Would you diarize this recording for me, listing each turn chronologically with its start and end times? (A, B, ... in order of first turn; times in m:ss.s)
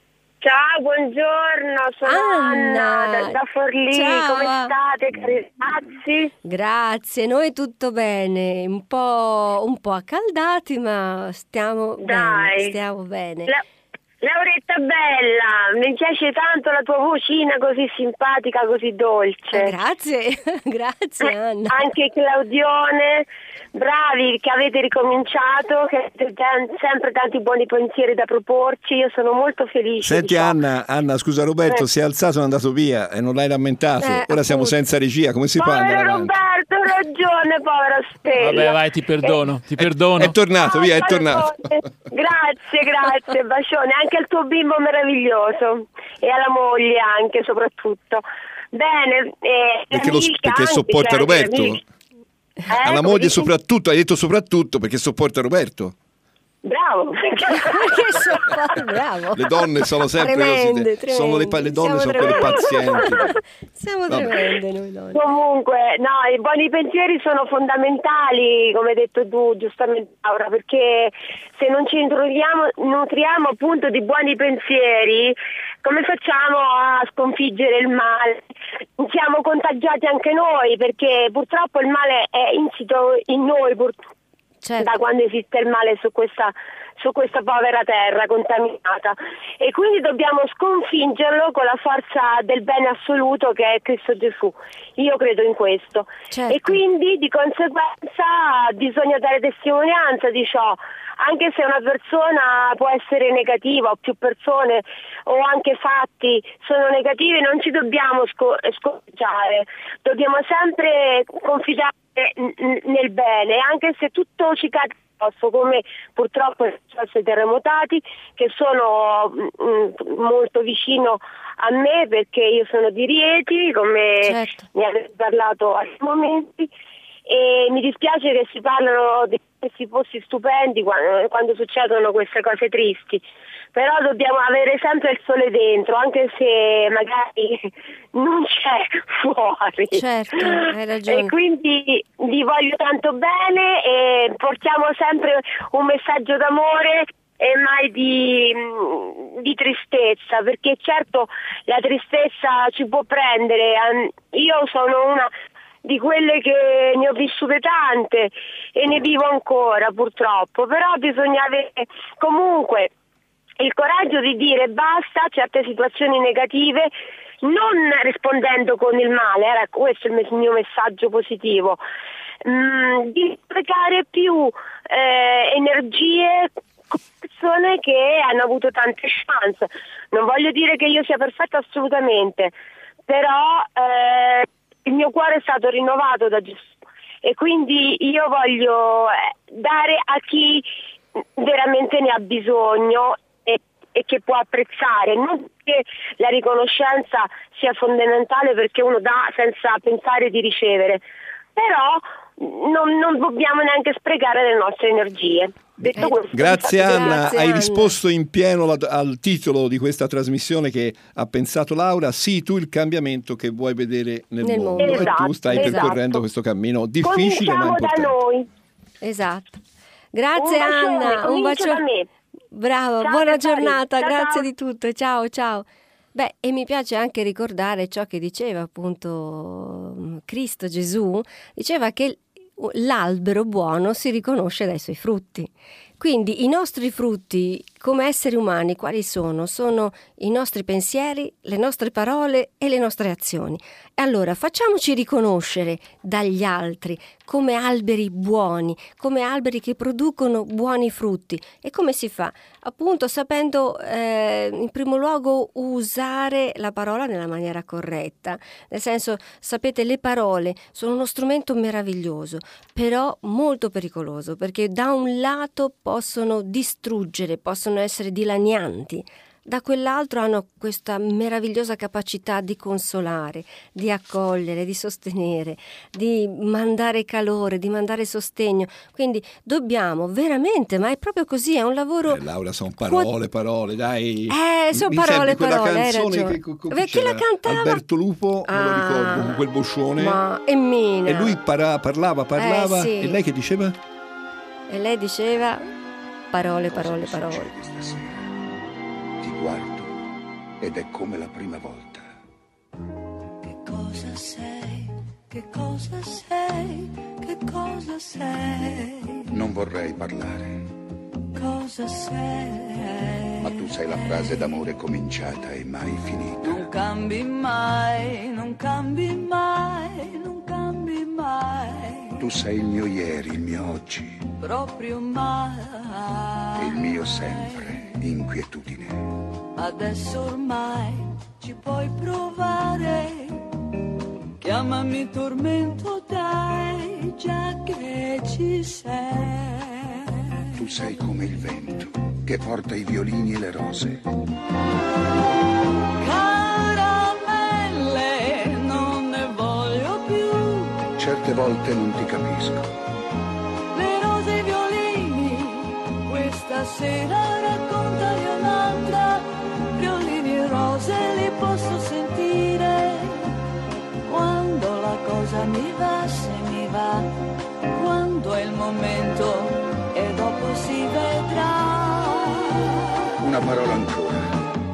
0:00.4-0:06.3 A
0:02.0-0:03.4 B
0:03.9-0:04.7 B
0:06.4-0:13.5 B
0:12.0-0:12.8 A
0:14.2-0:19.7 A
0:19.5-0:21.8 B
0:21.7-0:30.6 A
0:30.0-0:36.4 C
0:34.0-0:34.8 B
0:35.6-0:39.4 A
0:38.3-0:40.4 D
0:39.8-0:41.6 C
0:40.6-0:51.8 A
0:49.9-0:51.8 C
0:52.7-0:53.5 A
0:52.8-0:55.9 C
0:56.6-0:58.5 A
0:57.5-0:59.6 B
0:59.3-1:03.3 C
1:00.2-1:05.2 B
1:04.1-1:04.4 C
1:05.1-1:18.4 A
1:19.0-1:24.0 A
1:24.6-1:24.9 B
1:24.8-2:06.7 A
1:36.3-1:36.8 B
2:04.2-2:04.6 B
2:07.3-2:13.2 A
2:13.8-2:35.3 A
2:19.9-2:21.3 B
2:35.8-2:42.9 A
2:43.6-2:46.9 A
2:47.4-2:51.8 A
2:52.4-3:02.5 A
3:03.1-3:06.7 A
3:07.2-3:10.6 A
3:11.4-3:21.0 A
3:21.6-3:27.4 A
3:25.9-3:38.1 C
3:26.0-3:26.2 B
3:26.8-3:27.9 B
3:34.4-3:35.9 B
3:34.8-3:36.2 A
3:37.0-3:38.5 A
3:39.0-3:39.6 B
3:40.1-3:41.8 B
3:40.4-3:42.1 A
3:42.5-4:42.2 B
3:43.0-3:44.4 A
4:42.0-4:50.2 C
4:44.3-4:47.8 B
4:48.5-4:49.4 B
4:50.0-4:51.4 B
4:51.0-4:53.8 C
4:52.4-4:53.2 B
4:54.7-4:55.6 B
4:56.3-4:57.5 B
4:56.6-4:58.2 E
4:59.2-4:59.9 E
5:00.6-5:02.1 E
5:03.4-5:09.2 F
5:09.3-5:10.7 E
5:11.3-5:13.7 F
5:13.4-5:16.7 E
5:16.4-5:22.2 F
5:22.2-5:24.2 E
5:24.4-5:28.0 F
5:26.6-5:29.1 E
5:29.5-5:33.4 F
5:34.4-5:40.2 F
5:40.6-5:44.0 E
5:46.0-5:50.8 F
5:51.0-5:52.8 E
5:53.7-6:03.4 F
6:04.0-6:07.1 F
6:07.7-6:12.8 F
6:13.2-6:14.3 E